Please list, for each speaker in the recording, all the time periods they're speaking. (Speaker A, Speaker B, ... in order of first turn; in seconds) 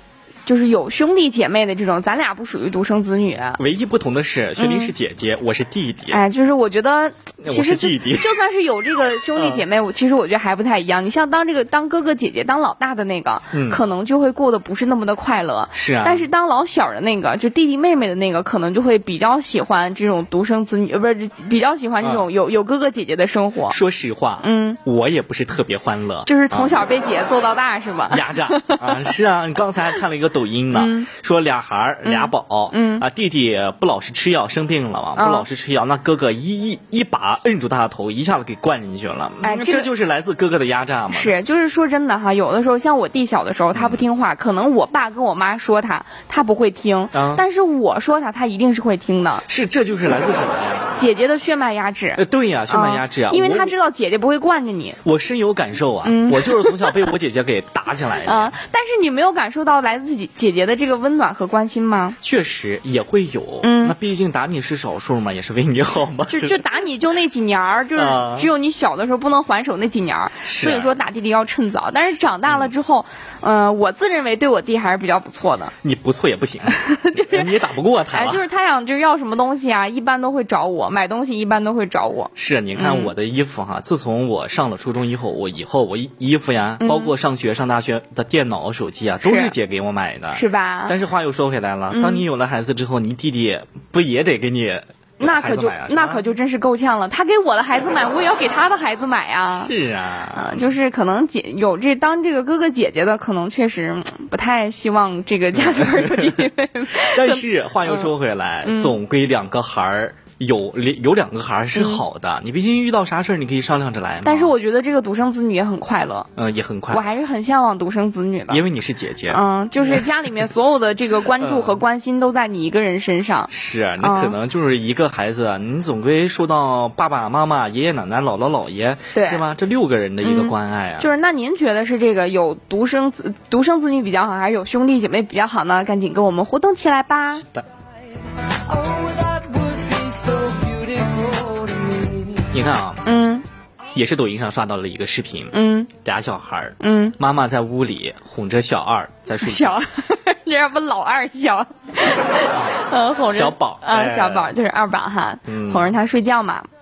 Speaker A: 0.5-3.6, 4.6-4.9, 6.1-23.8, 24.4-24.8, 26.2-29.1, 30.7-31.1, 32.0-33.0, 35.1-35.5, 39.4-39.9, 41.1-49.4, 51.0-55.0, 56.0-57.1, 58.2-62.2, 63.6-63.9, 66.3-75.7, 76.7-77.5, 78.1-83.1, 86.8-87.1, 89.2-89.5, 90.3-91.0, 91.9-92.2, 95.2-99.7, 100.3-108.1, 108.6-109.0, 111.7-112.0, 114.2-116.3, 116.9-118.6, 119.3-124.3, 129.1-129.4, 130.2-137.4, 143.0-143.4, 145.5-145.9, 146.8-147.2, 149.4-156.7
Speaker B: 3.6-6.2, 7.4-8.4, 9.3-9.6, 13.5-13.8, 15.7-16.3, 22.0-22.3, 23.7-26.8, 28.1-41.3, 43.7-44.0, 47.1-47.4, 49.5-50.9, 52.2-53.7, 55.0-58.5, 62.2-66.6, 68.0-68.5, 70.4-70.9, 72.5-72.7, 75.8-78.4, 82.3-96.2, 99.5-100.7, 105.5-114.5, 116.3-117.0, 118.5-120.1, 121.4-121.8, 123.5-131.1, 142.5-143.0, 143.9-149.8, 152.5-152.8, 153.3-154.5, 155.4-155.9
Speaker C: 138.7-142.4